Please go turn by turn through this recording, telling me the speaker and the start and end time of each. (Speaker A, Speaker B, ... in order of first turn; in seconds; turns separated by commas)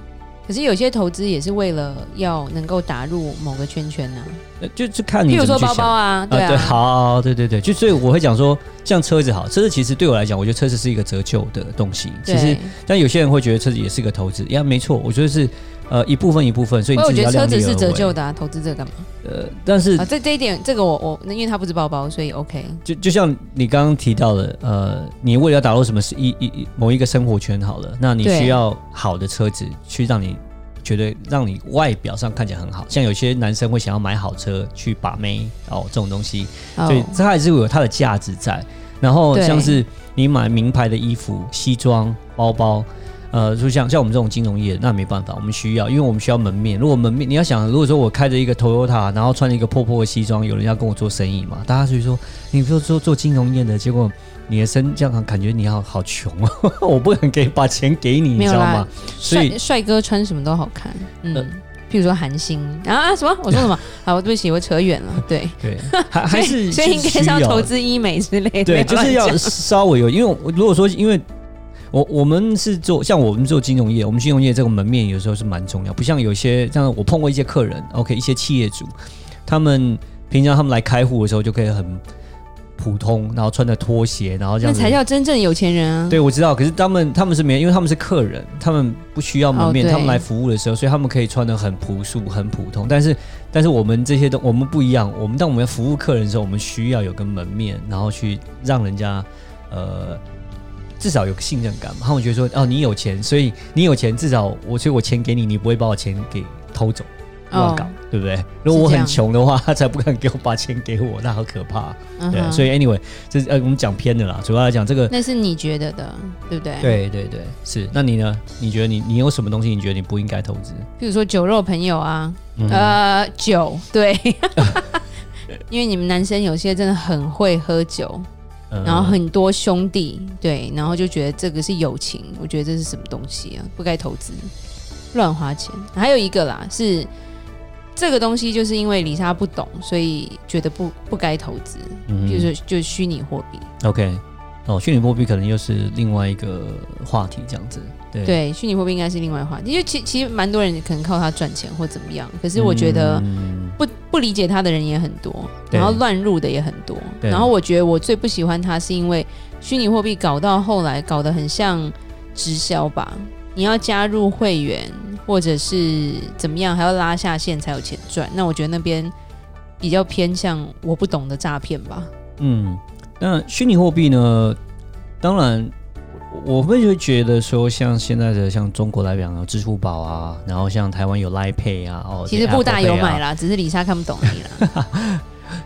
Speaker A: 0.5-4.4, Speaker B: 4.6-18.1, Speaker A: 5.3-6.8, Speaker A: 12.3-12.8, Speaker A: 16.9-19.1, Speaker B: 19.2-20.1, Speaker A: 20.0-22.8, Speaker B: 22.9-59.6, Speaker A: 28.2-28.6, Speaker A: 36.8-37.2, Speaker A: 39.3-39.8, Speaker A: 58.4-69.6, Speaker B: 65.6-67.7, Speaker B: 68.7-71.2, Speaker B: 71.9-78.9, Speaker B: 79.5-82.0, Speaker B: 82.8-85.0, Speaker A: 84.6-86.2, Speaker B: 86.1-100.2, Speaker A: 89.5-90.2, Speaker B: 101.0-115.2, Speaker A: 107.5-108.0, Speaker A: 108.7-109.2, Speaker A: 112.2-112.7, Speaker A: 115.1-117.0, Speaker B: 116.8-120.9, Speaker A: 121.0-125.1, Speaker B: 122.6-123.0, Speaker A: 125.7-128.3, Speaker B: 128.7-129.2, Speaker A: 128.8-134.5, Speaker A: 135.1-137.1, Speaker A: 137.9-143.7, Speaker B: 142.1-142.5, Speaker B: 143.8-148.4, Speaker A: 148.2-169.1, Speaker B: 152.6-153.8, Speaker B: 155.7-156.0, Speaker B: 157.2-157.5, Speaker A: 169.8-172.1, Speaker B: 172.4-174.6, Speaker B: 175.2-175.7, Speaker B: 176.3-183.2, Speaker A: 182.3-184.6, Speaker B: 184.3-185.2